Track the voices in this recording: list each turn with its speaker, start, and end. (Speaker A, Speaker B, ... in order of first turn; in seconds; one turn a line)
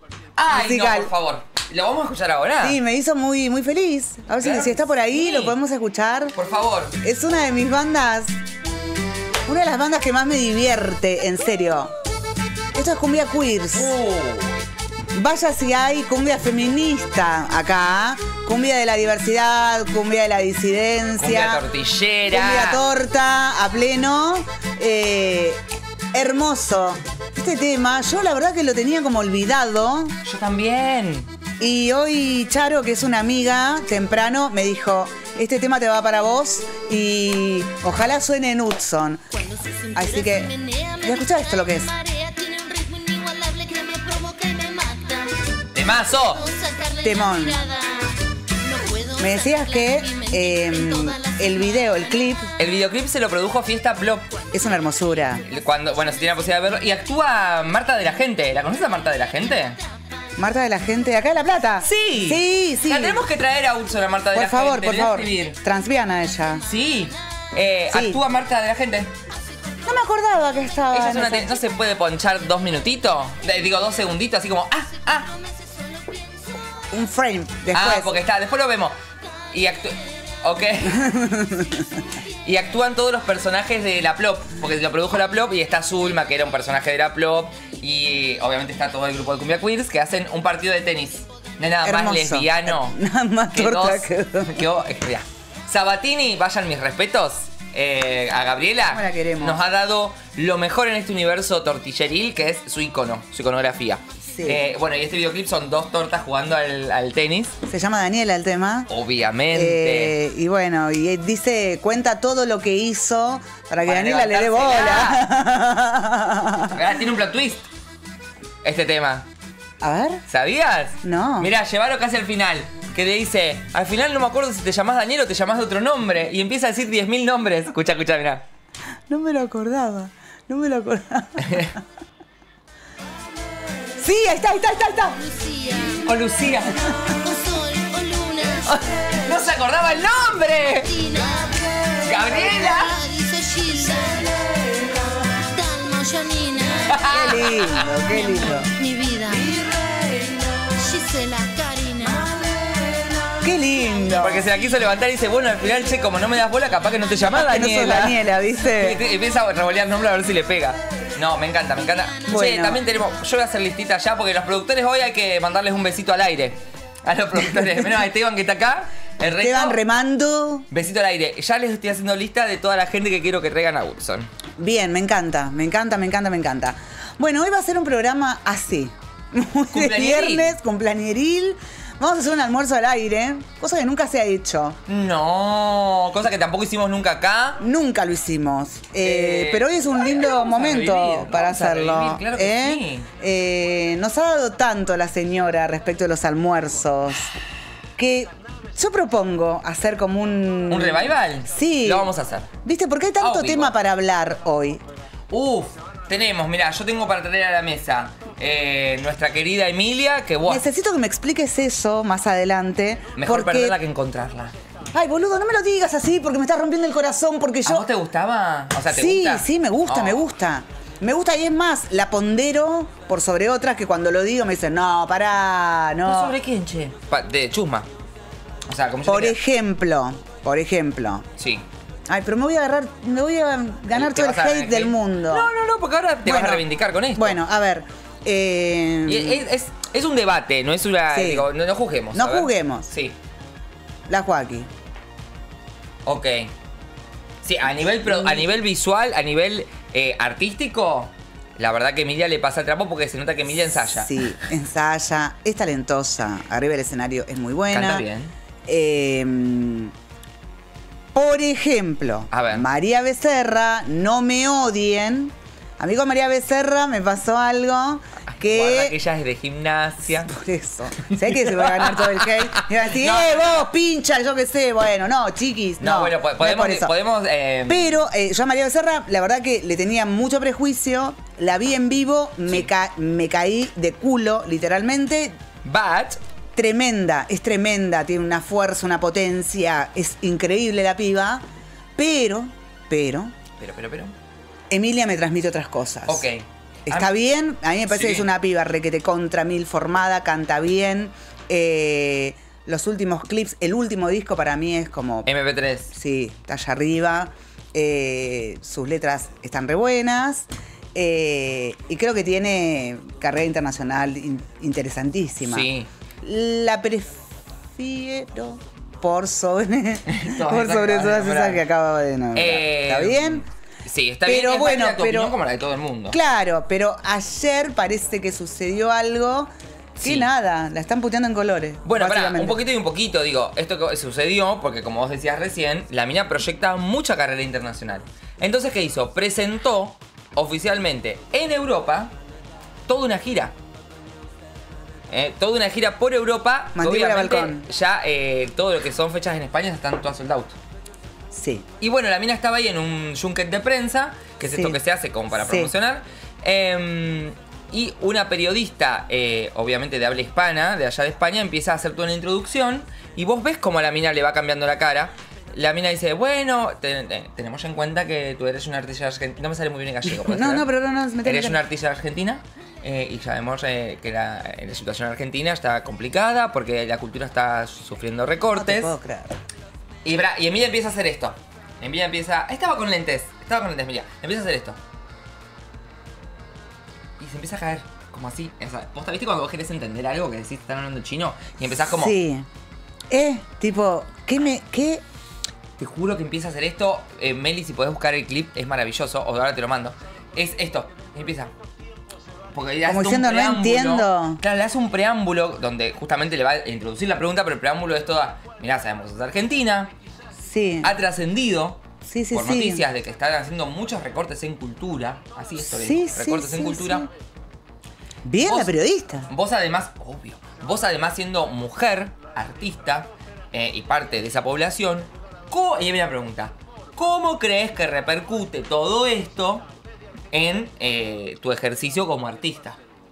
Speaker A: 0.4-2.8
Speaker B: 0.5-1.1
Speaker B: 2.6-6.3
Speaker A: 4.4-5.5
Speaker A: 6.3-6.9
Speaker B: 7.0-8.3
Speaker B: 9.5-11.9
Speaker B: 12.7-13.9
Speaker A: 13.7-14.6
Speaker B: 15.1-21.6
Speaker A: 21.2-22.8
Speaker B: 22.3-25.6
Speaker B: 26.1-30.2
Speaker A: 30.2-31.3
Speaker B: 31.6-39.2
Speaker C: 39.3-52.5
Speaker B: 39.9-40.5
Speaker B: 41.0-41.9
Speaker A: 45.7-46.4
Speaker B: 47.0-47.6
Speaker B: 49.2-52.5
Speaker A: 52.6-54.2
Speaker B: 54.5-55.4
Speaker A: 55.4-59.8
Speaker B: 60.4-63.2
Speaker A: 61.8-65.6
Speaker B: 64.3-66.6
Speaker A: 66.6-69.1
Speaker B: 67.9-68.2
Speaker B: 69.8-71.5
Speaker A: 70.9-75.3
Speaker C: 75.5-76.6
Speaker B: 76.9-78.1
Speaker A: 77.7-79.0
Speaker A: 79.5-81.1
Speaker B: 80.9-81.7
Speaker A: 82.4-93.0
Speaker B: 91.8-94.7
Speaker A: 93.5-107.5
Speaker B: 98.9-99.6
Speaker B: 104.3-104.7
Speaker B: 107.7-108.9
Speaker A: 108.9-110.1
Speaker B: 109.5-116.8
Speaker A: 113.8-115.2
Speaker A: 116.7-117.6
Speaker A: 118.6-119.2
Speaker B: 119.8-120.2
Speaker A: 120.3-128.4
Speaker B: 121.0-121.5
Speaker B: 129.1-131.7
Speaker A: 131.4-131.7
Speaker B: 134.0-135.2
Speaker C: 135.2-139.3
Speaker A: 136.0-136.7
Speaker A: 138.7-140.9
Speaker C: 140.9-147.1
Speaker A: 142.0-142.9
Speaker A: 146.9-147.9
Speaker B: 147.1-148.7
Speaker C: 147.9-150.2
Speaker C: 150.8-152.5
Speaker B: 153.4-154.5
Speaker A: 154.2-169.8
Speaker B: 157.5-159.0
Speaker B: 162.3-162.8
Speaker B: 167.4-167.8
Speaker B: 169.2-170.7
Speaker A: 170.7-174.3
Speaker B: 174.6-184.8
Speaker A: 179.7-180.5
Speaker A: 184.9-187.6
Speaker B: 187.6-197.3
Speaker A: 189.0-193.1
Speaker B: 198.0-202.1
Speaker A: 200.7-202.5
Speaker B: 202.6-204.8
Speaker A: 203.2-203.7
Speaker A: 205.3-210.7
Speaker B: 210.4-213.8
Speaker A: 213.2-214.5
Speaker B: 214.9-217.8
Speaker A: 217.6-220.2
Speaker B: 218.9-226.3
Speaker A: 226.0-227.9
Speaker A: 228.7-229.4
Speaker B: 229.1-231.2
Speaker A: 231.4-231.6
Speaker B: 232.1-235.5
Speaker A: 233.9-237.4
Speaker B: 236.2-239.4
Speaker A: 239.1-243.1
Speaker B: 241.1-241.5
Speaker B: 242.1-242.9
Speaker B: 244.1-244.7
Speaker A: 246.1-246.5
Speaker A: 247.4-254.2
Speaker B: 248.0-248.6
Speaker B: 253.6-258.0
Speaker A: 257.7-258.3
Speaker B: 258.7-259.9
Speaker B: 261.1-268.9
Speaker A: 262.3-262.7
Speaker A: 268.3-270.3
Speaker B: 270.1-276.9
Speaker A: 271.3-273.7
Speaker A: 275.8-278.0
Speaker B: 277.7-285.4
Speaker A: 285.6-286.2
Speaker B: 286.6-291.4
Speaker B: 291.9-293.3
Speaker A: 293.6-294.1
Speaker B: 294.7-296.2
Speaker A: 296.1-297.1
Speaker B: 296.9-305.3
Speaker A: 297.9-298.2
Speaker A: 305.2-305.9
Speaker B: 305.9-315.7
Speaker A: 315.4-315.9
Speaker B: 316.2-323.4
Speaker A: 320.1-321.6
Speaker A: 322.3-326.2
Speaker B: 324.2-325.3
Speaker B: 326.1-329.5
Speaker A: 330.0-330.3
Speaker B: 330.0-332.6
Speaker A: 331.8-342.1
Speaker A: 342.9-343.5
Speaker A: 345.1-350.6
Speaker B: 346.7-347.6
Speaker B: 351.3-351.6
Speaker A: 351.8-370.7
Speaker B: 354.4-354.8
Speaker B: 355.3-355.7
Speaker B: 370.0-371.6
Speaker A: 371.2-378.9
Speaker B: 378.5-379.4
Speaker A: 380.0-384.8
Speaker A: 387.2-392.1
Speaker B: 391.8-392.5
Speaker B: 393.1-395.0
Speaker A: 395.8-401.5
Speaker A: 402.5-409.9
Speaker B: 402.9-404.4
Speaker B: 410.4-410.9
Speaker A: 410.8-417.1
Speaker B: 412.0-412.9
Speaker B: 415.6-417.1
Speaker B: 418.2-419.3
Speaker A: 418.4-418.7
Speaker A: 419.3-429.6
Speaker A: 430.3-432.8